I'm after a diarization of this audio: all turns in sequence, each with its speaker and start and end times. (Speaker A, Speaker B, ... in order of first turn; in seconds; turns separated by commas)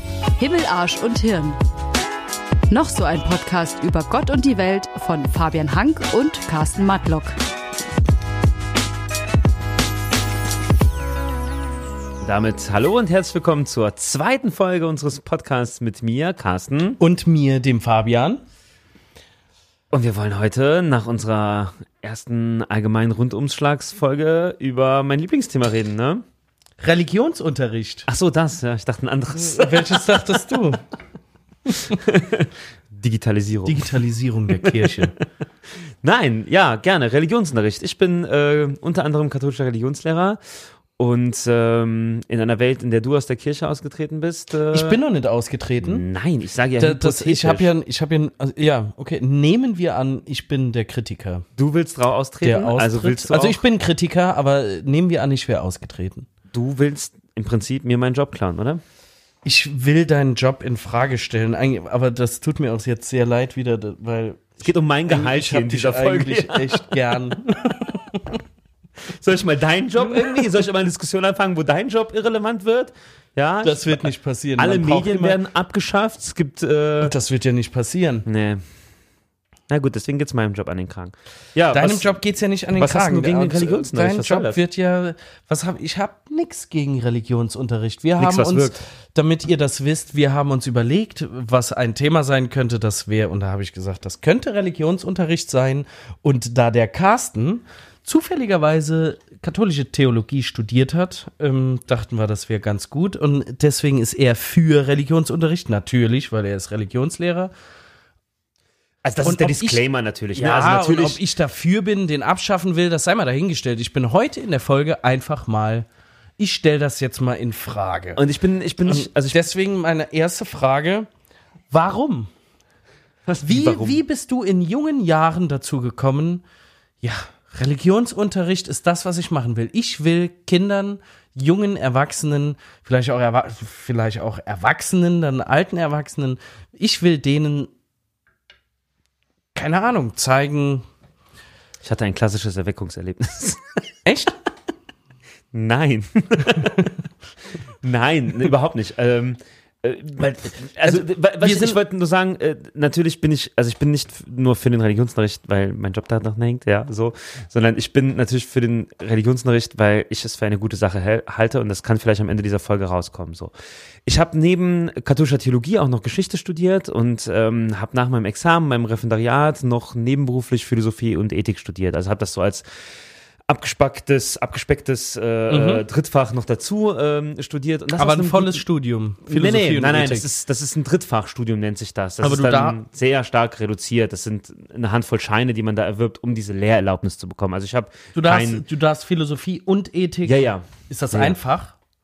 Speaker A: 0.4-1.6, Speaker A: 2.7-7.3, Speaker B: 12.2-17.0, Speaker C: 17.0-18.4, Speaker B: 19.9-26.2, Speaker C: 26.8-28.1, Speaker B: 28.1-30.1, Speaker C: 29.3-30.8, Speaker B: 31.7-33.9, Speaker C: 33.6-35.1, Speaker B: 34.6-35.0, Speaker B: 36.0-45.0, Speaker C: 44.7-46.0, Speaker B: 45.8-47.7, Speaker C: 46.8-51.5, Speaker B: 51.6-53.6, Speaker C: 52.4-56.3, Speaker B: 56.5-58.8, Speaker C: 59.4-68.4, Speaker B: 64.6-66.9, Speaker B: 69.0-77.1, Speaker C: 73.6-75.4, Speaker C: 77.0-78.2, Speaker B: 78.2-78.6, Speaker B: 79.7-82.2, Speaker C: 81.7-107.5, Speaker B: 82.7-84.6, Speaker B: 88.2-88.8, Speaker B: 109.0-111.2, Speaker C: 109.2-109.8, Speaker C: 110.3-115.8, Speaker C: 116.4-118.2, Speaker B: 118.2-119.4, Speaker C: 118.8-121.1, Speaker C: 121.7-122.3, Speaker B: 123.3-124.0, Speaker C: 123.4-126.4, Speaker C: 127.0-137.7, Speaker C: 139.5-140.8, Speaker B: 141.8-143.9, Speaker C: 144.0-144.4, Speaker B: 145.5-146.9, Speaker B: 147.8-163.5, Speaker C: 150.8-151.8, Speaker B: 164.1-172.7, Speaker B: 173.5-178.6, Speaker C: 175.5-175.8, Speaker C: 178.0-180.2, Speaker B: 179.3-188.6, Speaker C: 182.2-182.8, Speaker C: 188.1-191.7, Speaker B: 190.2-191.4